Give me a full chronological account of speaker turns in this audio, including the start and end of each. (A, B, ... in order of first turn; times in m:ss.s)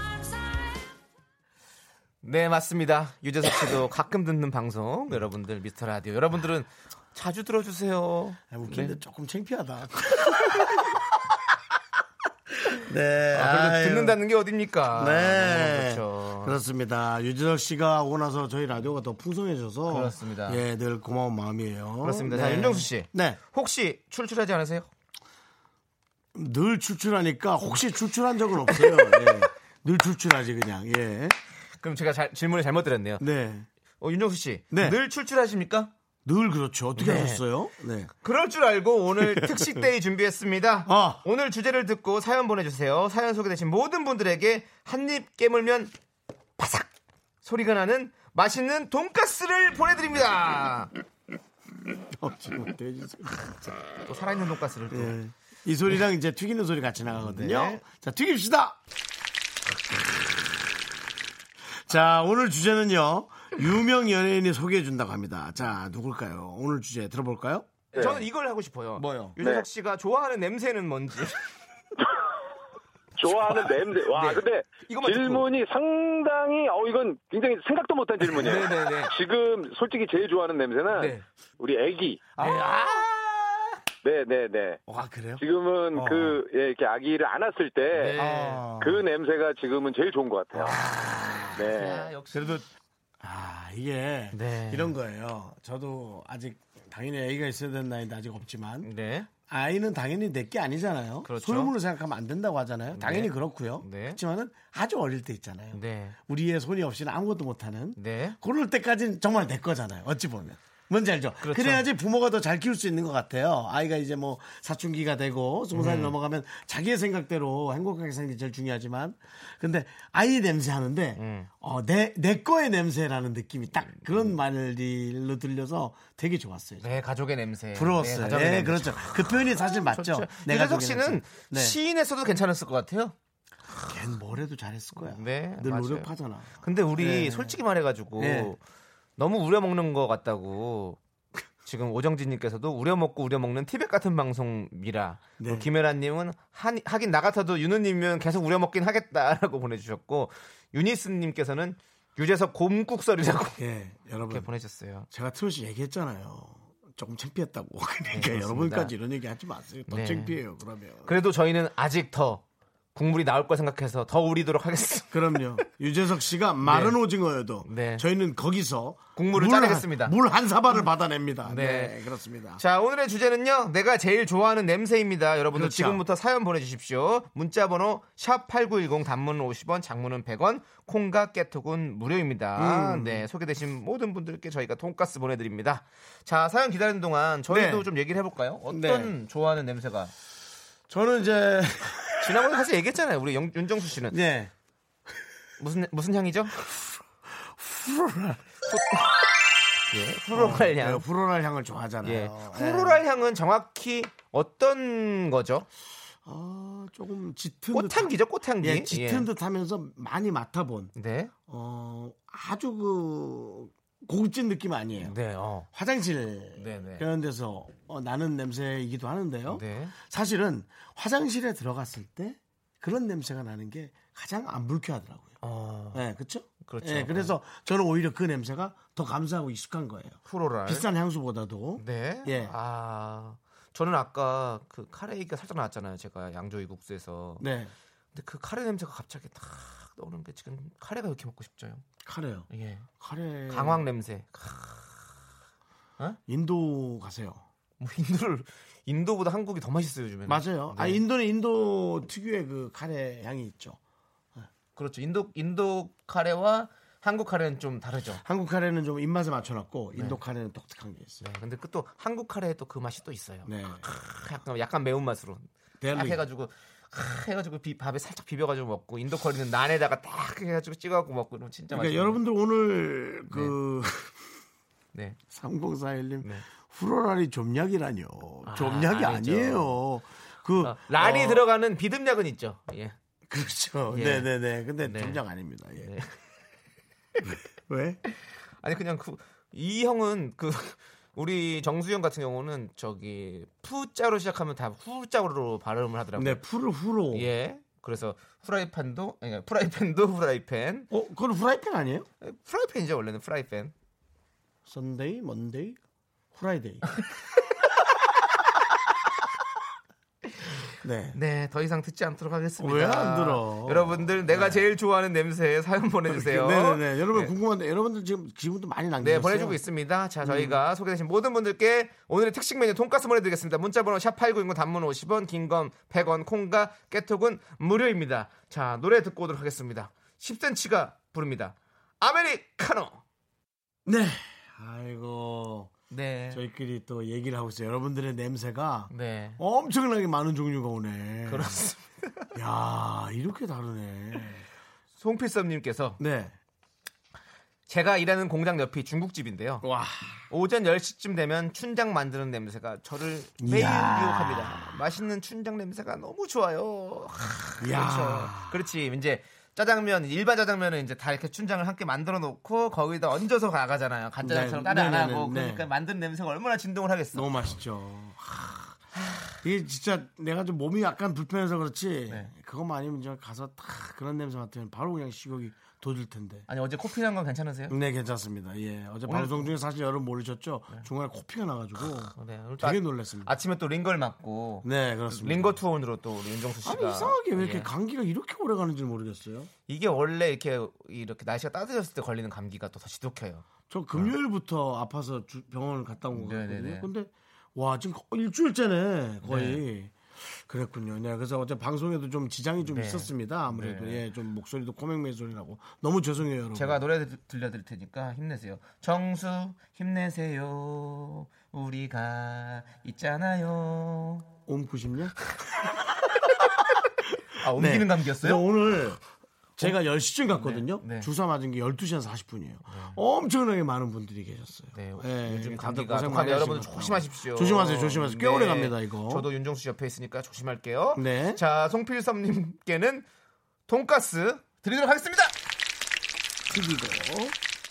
0:02.2-0:09.0 A
0:08.5-0:11.4 B
0:12.6-0:14.2 B
0:13.3-0:16.6 A
0:14.9-0:23.4 B
0:19.9-0:20.6 A
0:22.0-0:24.9 A
0:26.3-0:31.4 B
0:31.8-0:33.2 A
0:33.2-0:33.7 B
0:34.0-0:35.9 A
0:34.7-0:35.0 B
0:36.2-0:38.1 B
0:37.0-0:37.4 A
0:38.2-0:45.9 A
0:39.2-0:39.8 B
0:40.9-0:41.2 B
0:46.6-0:46.9 A
0:47.4-0:50.9 A
0:52.1-0:53.7 B
0:54.0-0:55.2 A
0:54.9-0:58.8 B
0:57.2-0:57.8 A
1:01.8-1:08.2 B
1:07.9-1:08.2 C
1:07.9-1:11.4 A
1:09.0-1:09.4 B
1:09.4-1:09.6 C
1:13.2-1:22.3 C
1:13.3-1:15.5 A
1:18.3-1:19.1 A
1:20.9-1:21.2 A
1:22.4-1:23.6 B
1:22.4-1:22.9 A
1:24.0-1:24.8 C
1:24.9-1:25.4 B
1:25.4-1:28.2 C
1:25.9-1:26.4 B
1:27.9-1:28.6 A
1:28.2-1:29.0 B
1:28.8-1:30.8 C
1:30.5-1:32.6 B
1:31.6-1:32.0 C
1:31.7-1:32.6 A
1:33.2-1:38.9 B
1:34.3-1:34.9 A
1:38.8-1:39.3 A
1:39.5-2:06.9 B
1:41.2-1:41.7 A
1:42.9-1:44.2 A
1:45.7-1:46.2 A
1:48.0-1:48.4 A
1:51.4-1:51.9 A
1:55.7-1:56.1 A
2:01.2-2:01.5 A
2:06.8-2:13.1 A
2:07.7-2:11.8 B
2:13.8-2:17.6 B
2:15.0-2:18.6 A
2:18.2-2:18.5 B
2:19.2-2:21.0 A
2:21.6-2:33.6 A
2:25.4-2:25.7 B
2:33.6-2:34.5 B
2:34.2-2:35.1 A
2:35.1-2:41.2 B
2:38.1-2:38.9 A
2:39.9-2:40.4 A
2:41.0-2:42.4 A
2:42.9-2:45.6 A
2:45.1-2:52.6 B
2:46.6-2:47.0 A
2:47.6-2:48.1 A
2:49.2-2:50.1 A
2:51.4-2:52.0 A
2:52.6-3:10.1 A
2:55.5-2:56.0 B
3:02.6-3:03.3 B
3:07.5-3:07.9 B
3:08.7-3:09.1 B
3:10.9-3:12.5 B
3:12.2-3:14.2 A
3:14.1-3:14.5 B
3:15.6-3:16.6 A
3:17.3-3:18.5 B
3:18.7-3:19.2 A
3:19.9-3:21.0 A
3:20.3-3:23.0 B
3:22.0-3:25.7 A
3:26.2-3:30.9 B
3:27.7-3:29.3 A
3:31.0-3:31.3 A
3:31.5-3:35.1 B
3:35.0-3:35.7 A
3:35.7-3:45.4 B
3:36.6-3:37.1 A
3:39.5-3:39.9 A
3:45.4-3:46.0 A
3:45.9-3:52.5 B
3:46.6-3:47.4 A
3:50.3-3:50.9 A
3:51.8-3:57.4 A
3:57.4-3:57.7 B
3:58.1-4:01.8 A
4:02.0-4:02.5 B
4:02.5-4:02.9 A
4:03.0-4:03.8 B
4:03.5-4:05.1 A
4:06.3-4:07.4 B
4:07.8-4:11.0 A
4:10.3-4:13.8 B
4:14.8-4:18.2 A
4:18.2-4:21.3 B
4:21.2-4:32.2 A
4:23.4-4:23.8 B
4:25.8-4:26.2 B
4:31.7-4:34.2 B
4:33.3-4:33.6 A
4:35.3-4:41.4 B
4:38.4-4:39.8 A
4:40.6-4:43.0 A
4:43.3-4:45.9 B
4:43.9-4:45.2 A
4:45.8-4:46.1 A
4:47.2-4:48.0 B
4:48.6-4:56.4 A
4:56.2-4:57.3 B
4:57.1-5:00.9 A
5:00.9-5:02.1 B
5:02.2-5:03.7 A
5:04.6-5:05.8 B
5:06.3-5:06.9 B
5:10.8-5:11.2 B
5:11.1-5:17.3 A
5:12.6-5:14.7 B
5:16.1-5:19.6 B
5:19.0-5:33.0 A
5:20.2-5:20.6 B
5:33.9-5:35.7 B
5:35.9-5:36.4 A
5:36.3-5:41.6 B
5:38.9-5:39.4 A
5:41.3-5:42.3 A
5:42.4-5:44.4 B
5:45.0-5:46.0 A
5:46.0-5:46.4 B
5:47.7-5:49.7 A
5:49.6-5:50.2 B
5:50.3-6:07.3 A
5:53.4-5:54.8 B
5:57.6-5:58.6 B
6:04.2-6:05.7 B
6:07.1-6:08.8 B
6:09.4-6:16.5 B
6:16.5-6:17.8 A
6:17.7-6:23.3 B
6:19.1-6:19.5 A
6:22.1-6:27.7 A
6:24.6-6:25.6 B
6:26.6-6:29.5 B
6:29.7-6:34.1 A
6:33.7-6:46.8 B
6:36.1-6:36.9 A
6:39.2-6:39.6 A
6:42.6-6:44.0 A
6:46.5-6:54.3 A
6:54.5-6:55.2 B
6:57.3-6:58.4 A
6:57.5-6:59.0 B
6:59.6-7:09.3 B
7:00.3-7:01.1 A
7:02.7-7:03.0 A
7:04.7-7:13.1 A
7:10.9-7:11.4 B
7:13.7-7:15.4 A
7:16.5-7:17.4 B